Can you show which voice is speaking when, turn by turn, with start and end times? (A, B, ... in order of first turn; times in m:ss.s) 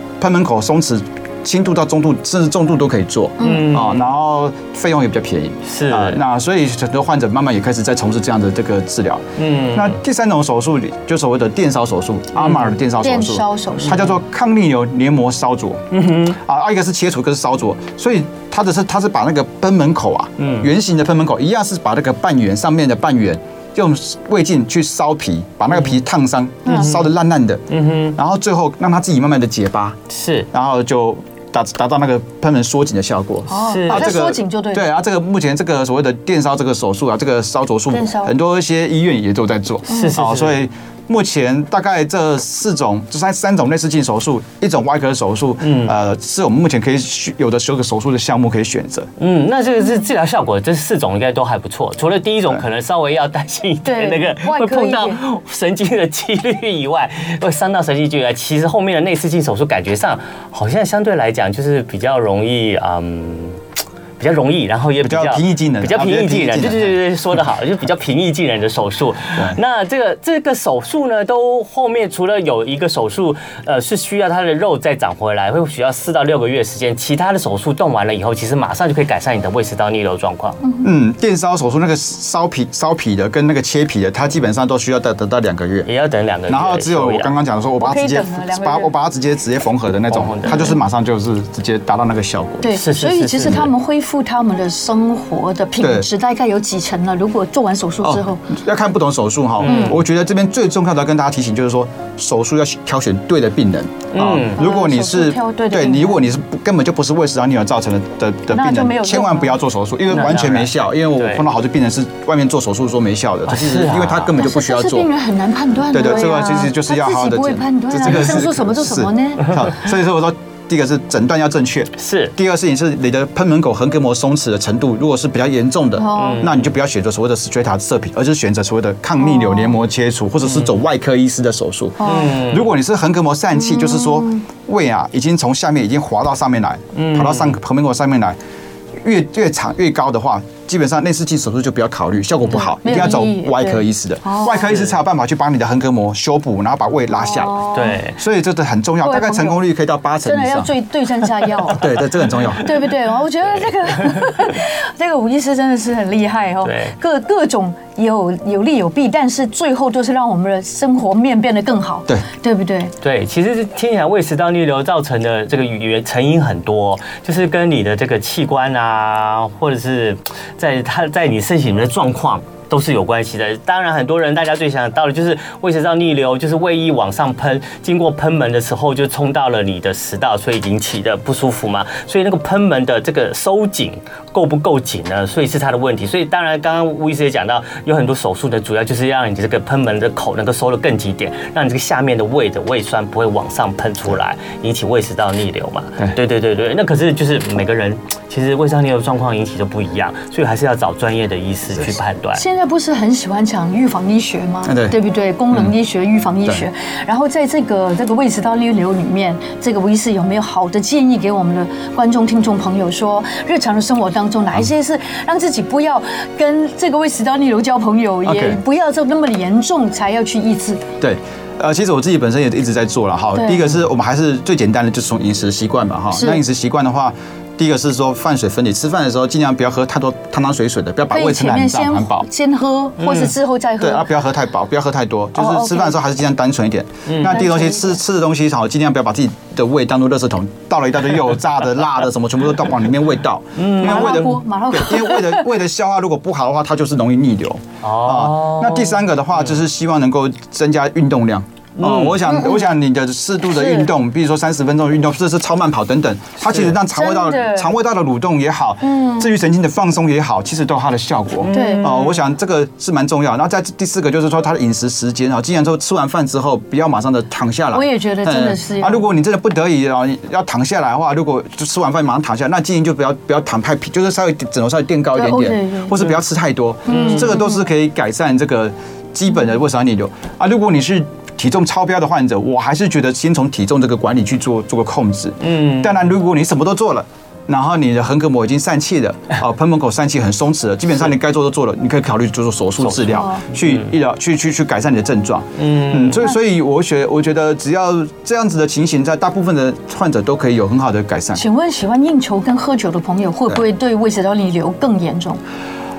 0:00.2-0:30.0 A
0:03.4-0:03.8 B
0:03.4-0:04.0 C
0:05.7-0:06.2 C
0:09.4-0:10.0 C
0:12.4-0:12.8 C
0:13.0-0:14.0 B
0:13.8-0:14.1 C
0:15.9-0:16.4 C
0:20.4-0:20.7 C
0:26.6-0:26.9 B
0:26.7-0:27.1 C
0:27.7-0:28.2 C
0:30.1-0:30.5 C
0:30.5-0:49.1 A
0:33.5-0:34.9 B
0:33.7-0:34.2 C
0:37.9-0:38.3 B
0:39.9-0:40.6 C
0:39.9-0:40.2 B
0:45.6-0:45.9 C
0:49.2-1:03.6 C
0:53.8-0:55.2 B
1:04.2-1:20.6 C
1:05.0-1:07.0 A
1:20.8-1:25.9 A
1:25.8-1:27.3 C
1:26.5-1:32.7 A
1:27.8-1:28.9 B
1:30.1-1:30.7 C
1:30.5-1:30.7 B
1:32.6-1:38.4 B
1:32.7-1:33.7 C
1:35.8-1:36.1 A
1:38.0-1:55.1 A
1:39.6-1:40.0 C
1:39.6-1:40.0 B
1:44.1-1:44.6 C
1:44.6-1:46.3 B
1:48.5-1:49.6 B
1:50.1-1:51.4 C
1:53.4-1:54.4 C
1:54.4-1:59.7 B
1:55.9-2:18.4 A
2:02.0-2:02.3 C
2:06.0-2:06.5 B
2:06.1-2:06.7 C
2:09.2-2:09.7 B
2:12.0-2:12.3 B
2:12.0-2:12.7 C
2:13.6-2:14.4 B
2:17.0-2:17.6 C
2:19.0-2:27.6 A
2:22.5-2:24.6 B
2:24.5-2:25.0 C
2:27.1-2:28.0 B
2:27.7-2:28.2 C
2:28.1-2:30.7 A
2:29.0-2:29.6 B
2:30.2-2:31.9 B
2:31.7-2:32.7 A
2:32.6-2:42.9 B
2:36.6-2:36.9 C
2:43.0-3:22.4 C
3:22.3-3:40.8 B
3:24.7-3:25.0 A
3:38.2-3:38.6 A
3:41.0-3:52.3 A
3:43.3-3:43.7 B
3:46.1-3:46.4 B
3:51.1-3:54.1 B
3:53.0-3:53.3 C
3:53.8-5:01.4 A
3:55.3-3:56.0 B
3:57.1-3:57.4 C
3:57.2-3:58.0 B
4:03.6-4:04.3 C
4:03.8-4:05.5 B
4:07.8-4:09.6 C
4:11.8-4:12.5 C
4:12.2-4:12.6 B
4:13.5-4:13.9 B
4:16.4-4:16.8 C
4:16.9-4:17.7 B
4:18.8-4:19.3 B
4:21.4-4:22.2 C
4:21.5-4:22.0 B
4:27.7-4:29.1 B
4:35.1-4:36.0 B
4:36.9-4:37.4 C
4:36.9-4:37.6 B
4:45.4-4:46.0 C
4:52.8-4:53.8 C
4:53.1-4:53.4 B
4:55.6-4:56.2 C
5:01.3-5:05.4 B